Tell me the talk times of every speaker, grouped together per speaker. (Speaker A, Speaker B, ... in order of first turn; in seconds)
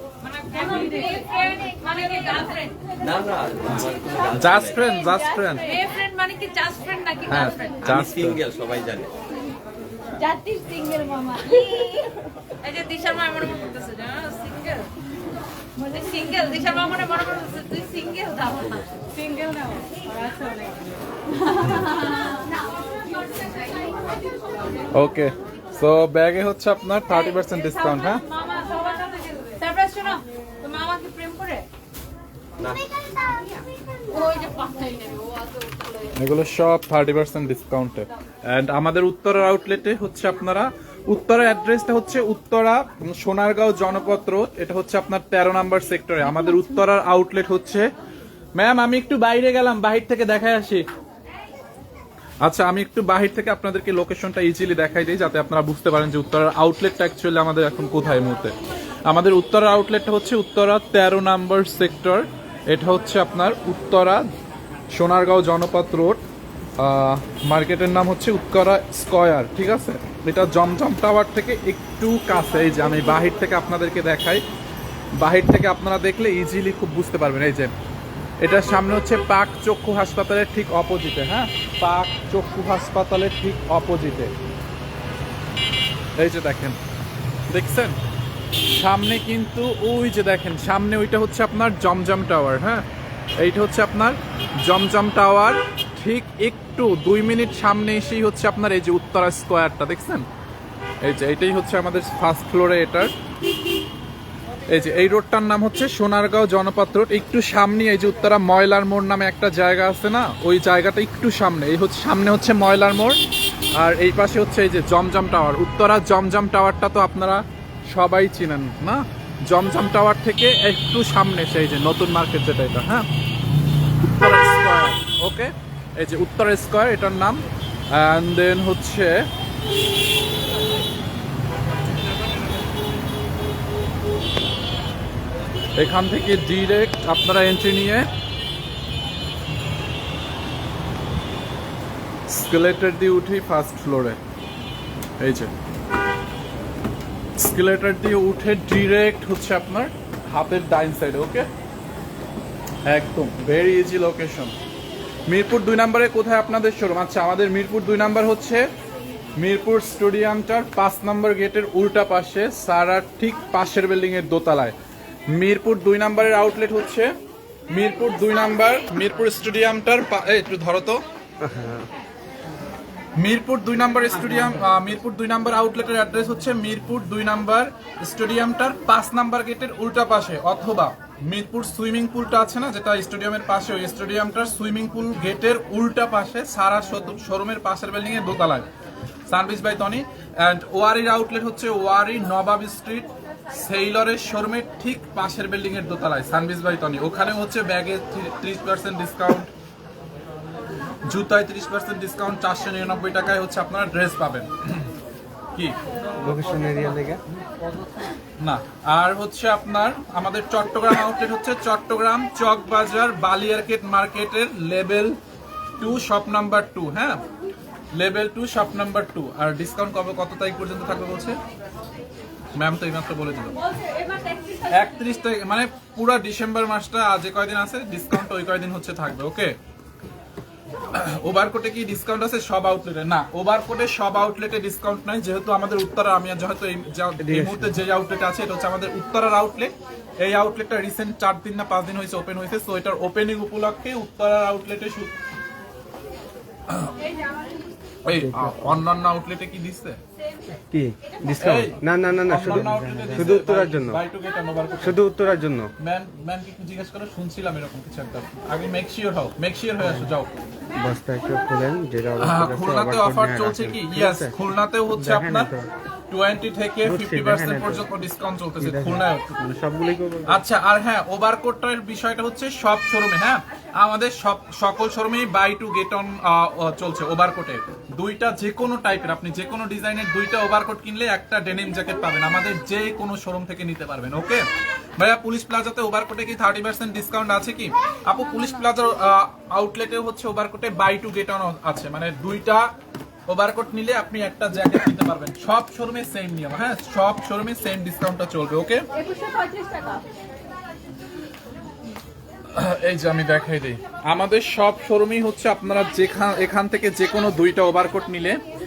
Speaker A: 0.2-2.9, 5.6-8.1, 11.4-14.9, 15.9-19.0, 21.4-22.6, 27.2-28.9, 29.6-31.7, 34.1-36.2, 223.7-225.0, 298.9-300.0
Speaker B: 0.5-1.2, 10.2-11.4, 19.1-20.9, 28.5-29.6
Speaker C: 3.1-4.4, 7.9-9.1
Speaker D: 3.7-5.7, 7.3-8.4, 24.9-28.2, 36.2-47.9, 48.5-50.8, 52.4-58.5, 59.1-64.2, 64.9-66.2, 66.8-74.4, 75.2-77.7, 78.4-84.3, 86.2-86.8, 87.5-88.0, 88.7-92.8, 93.4-100.2, 101.0-103.1, 104.7-113.2, 113.8-123.1, 124.0-129.2, 135.8-138.1, 142.3-144.2, 145.2-145.5, 147.4-151.5, 152.8-154.5, 155.3-158.7, 159.4-164.7, 165.3-167.1, 167.7-171.0, 173.2-188.7, 189.3-199.5, 201.1-204.9, 208.4-215.2, 215.8-217.2, 217.9-221.4, 222.6-223.5, 224.7-229.5, 230.9-245.1, 246.7-246.9, 248.0-250.0, 251.4-255.0, 255.8-260.3, 262.2-265.5, 266.1-269.4, 270.3-284.4, 285.0-292.7, 293.3-298.9, 302.5-308.4
Speaker E: 171.4-171.8, 206.2-207.2, 237.2-237.7, 248.1-248.8, 250.7-254.0, 254.8-255.7, 259.8-260.1, 260.8-264.3, 264.9-265.7, 266.8-267.9, 268.6-270.4